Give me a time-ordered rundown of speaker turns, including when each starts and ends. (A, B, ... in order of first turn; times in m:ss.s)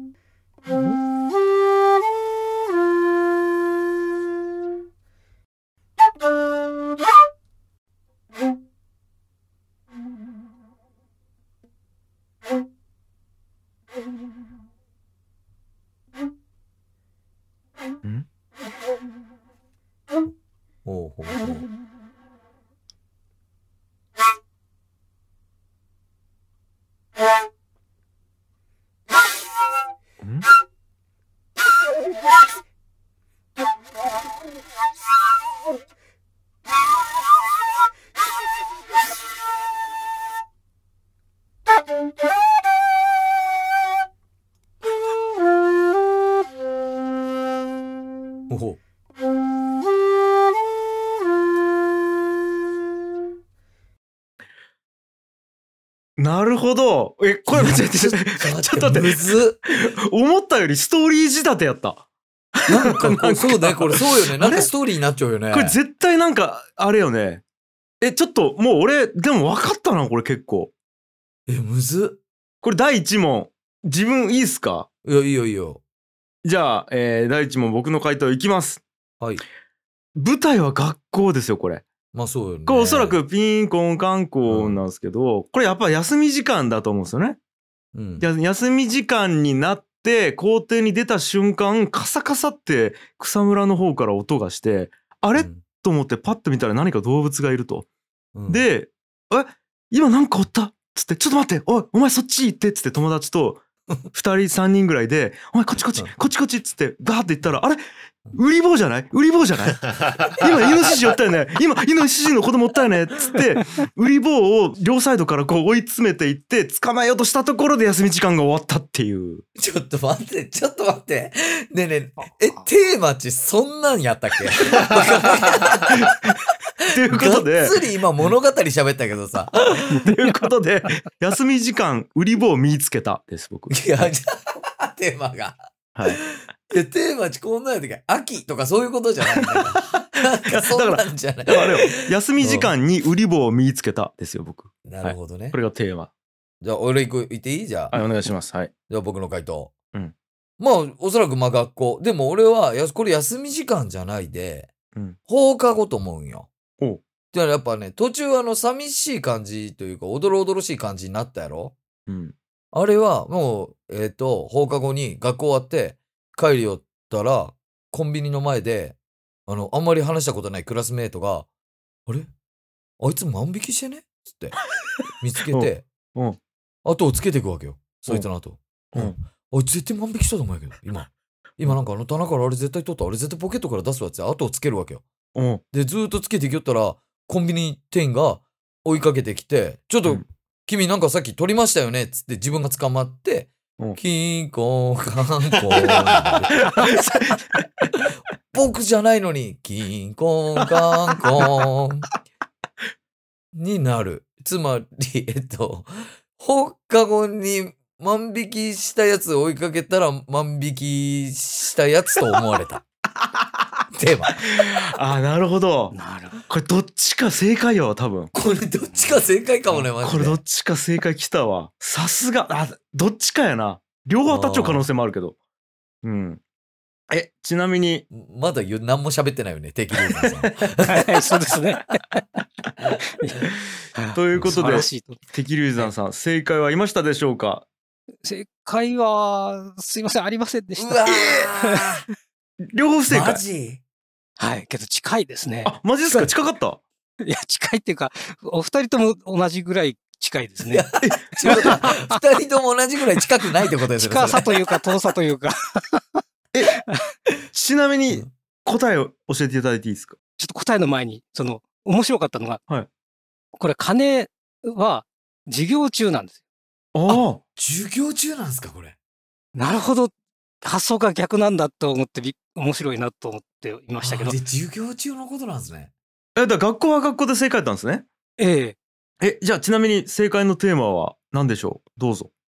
0:20.8-0:21.7 A
0:48.5-0:48.8 A
0:56.2-1:02.0 B
0:57.5-0:59.6 A
1:02.6-1:04.7 B
1:02.7-1:05.8 A
1:05.5-1:07.4 B
1:08.0-1:10.7 B
1:11.5-1:12.2 A
1:12.6-1:14.9 B
1:15.0-1:15.8 A
1:16.4-1:18.8 B
1:20.2-1:21.9 B
1:22.1-1:23.2 A
1:22.7-1:27.4 B
1:24.5-1:24.8 A
1:27.9-1:28.3 A
1:28.2-1:37.9 B
1:35.4-1:35.6 A
1:38.3-1:38.7 A
1:38.5-1:47.8 B
1:48.3-1:59.4 B
1:59.6-2:06.0 A
2:02.2-2:02.7 C
2:05.9-2:06.4 B
2:06.9-2:07.8 B
2:07.0-2:10.0 A
2:09.9-2:14.1 B
2:13.7-2:22.7 A
2:16.0-2:16.2 B
2:20.5-2:26.1 B
2:24.8-2:25.6 A
2:26.6-2:28.0 A
2:27.9-2:28.7 B
2:28.9-2:29.7 A
2:30.6-2:34.7 A
2:35.3-2:36.5 A
2:37.3-2:41.8 A
2:42.1-2:42.4 B
2:42.7-2:51.5 A
2:53.0-2:54.6 A
2:55.2-2:55.9 A
2:55.5-2:56.4 B
2:56.8-3:05.0 A
3:05.4-3:05.6 B
3:05.7-3:16.9 A
3:16.6-3:17.7 B
3:18.0-3:22.1 A
3:23.5-3:32.8 A
3:33.9-3:34.4 A
3:34.4-3:36.0 B
3:35.9-3:36.4 C
3:36.5-3:38.3 B
3:38.3-3:40.4 A
3:40.0-3:45.4 B
3:44.3-3:44.8 A
3:46.0-3:46.4 B
3:47.1-3:48.0 B
3:48.1-3:51.1 A
3:50.3-3:50.9 B
3:50.9-3:52.0 C
3:53.2-3:55.2 C
3:54.1-3:57.7 B
3:54.4-3:54.6 A
3:58.2-4:02.0 C
4:00.8-4:02.0 A
4:01.1-4:01.4 B
4:02.7-4:03.4 B
4:03.1-4:03.8 A
4:04.4-4:06.3 C
4:05.6-4:06.8 B
4:07.2-4:10.9 C
4:10.6-4:14.6 A
4:11.0-4:11.8 B
4:11.4-4:12.2 C
4:13.9-4:16.2 C
4:16.7-4:17.0 C
4:17.5-4:20.2 B
4:20.4-4:22.6 C
4:23.6-4:26.4 C
4:26.9-4:27.4 B
4:27.1-4:29.0 A
4:29.6-4:34.4 C
4:34.0-4:35.9 A
4:36.4-4:38.1 B
4:38.4-4:38.8 C
4:39.2-4:42.3 B